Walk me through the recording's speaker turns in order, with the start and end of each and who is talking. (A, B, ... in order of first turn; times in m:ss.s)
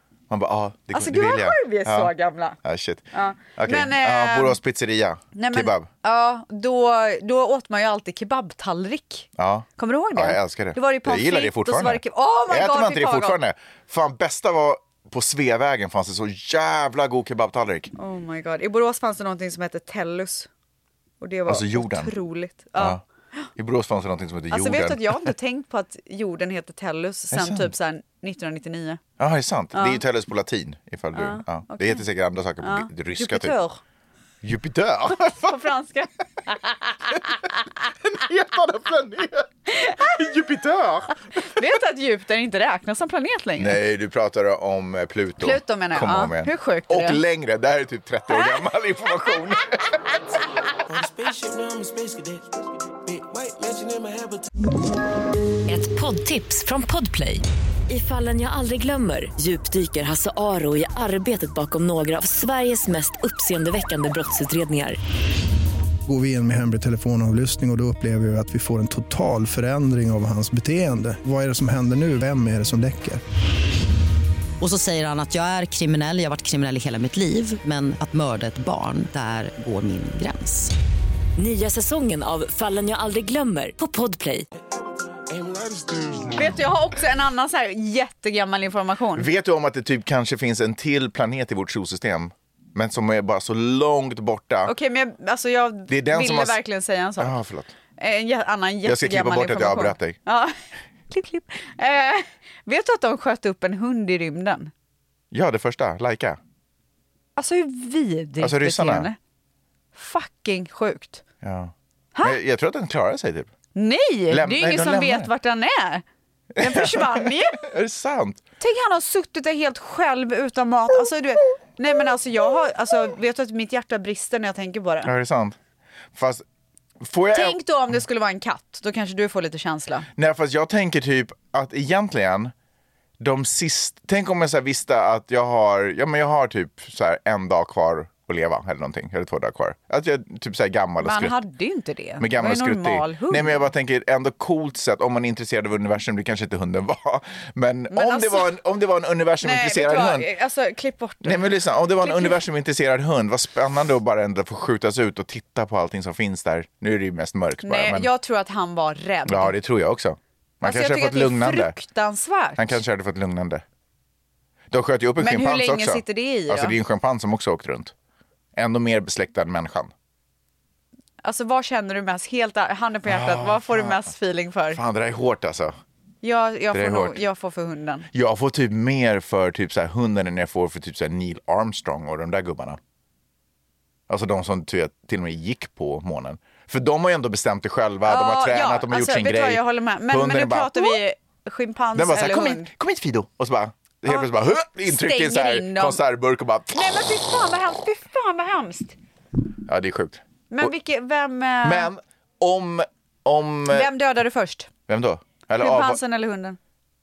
0:00.3-0:02.1 A
0:00.9-0:02.6 B
0:02.6-0:05.9 A
0:03.1-0:04.6 B
0:05.3-0:13.4 B
0:09.4-0:17.9 A
0:17.9-0:20.5 B
0:21.2-0:23.4 B
0:21.5-0:22.1 A
0:22.8-0:23.0 A
0:23.6-0:25.3 A
0:24.5-0:29.0 B
0:27.3-0:27.7 A
0:29.2-0:33.5 A
0:29.7-0:30.0 B
0:31.1-0:32.0 B
0:32.6-0:33.8 B
0:34.4-0:35.5 A
0:35.1-0:37.2 B
0:38.0-0:41.2 A
0:39.7-0:40.1 B
0:41.4-0:43.8 B
0:43.6-0:50.2 A
0:45.4-0:47.2 B
0:50.8-0:54.5 C
0:55.6-1:05.0 D
1:06.0-1:13.2 E
1:14.6-1:20.7 F
1:21.4-1:24.5 D
1:25.1-1:26.6 C
1:26.3-1:29.3 B
1:29.1-1:34.7 A
1:34.6-1:37.3 B
1:35.9-1:36.6 A
1:37.2-1:37.7 A
1:38.0-1:40.6 B
1:38.8-1:40.2 A
1:41.1-1:44.7 B
1:45.3-1:46.4 A
1:47.4-1:49.2 B
1:48.4-1:49.1 A
1:49.9-1:51.2 B
1:51.4-1:53.5 A
1:53.7-1:56.0 B
1:54.3-1:55.3 A
1:56.6-1:58.4 A
1:56.6-1:57.6 B
1:58.6-2:05.1 B
2:05.0-2:05.6 A
2:06.1-2:06.4 A
2:07.0-2:07.6 A
2:07.3-2:10.1 B
2:10.2-2:12.5 A
2:13.2-2:21.4 A
2:21.0-2:23.6 B
2:22.2-2:30.3 A
2:27.9-2:28.5 B
2:29.4-2:32.4 B
2:31.2-2:38.1 A
2:37.6-2:39.5 B
2:39.3-2:41.8 A
2:40.6-2:42.8 B
2:42.6-2:43.6 A
2:44.7-2:47.9 A
2:45.2-2:46.8 B
2:48.5-2:49.9 A
2:51.2-2:54.8 B
2:53.0-2:54.1 A
2:54.7-2:55.8 A
2:56.2-2:58.1 B
2:56.7-2:57.2 A
2:58.1-3:02.8 A
3:04.1-3:11.0 A
3:08.0-3:12.7 B
3:11.9-3:16.9 A
3:14.8-3:16.0 B
3:16.7-3:19.0 B
3:19.7-3:20.7 A
3:20.5-3:21.9 B
3:21.6-3:23.9 A
3:23.7-3:24.7 B
3:24.9-3:26.0 A
3:25.6-3:26.6 B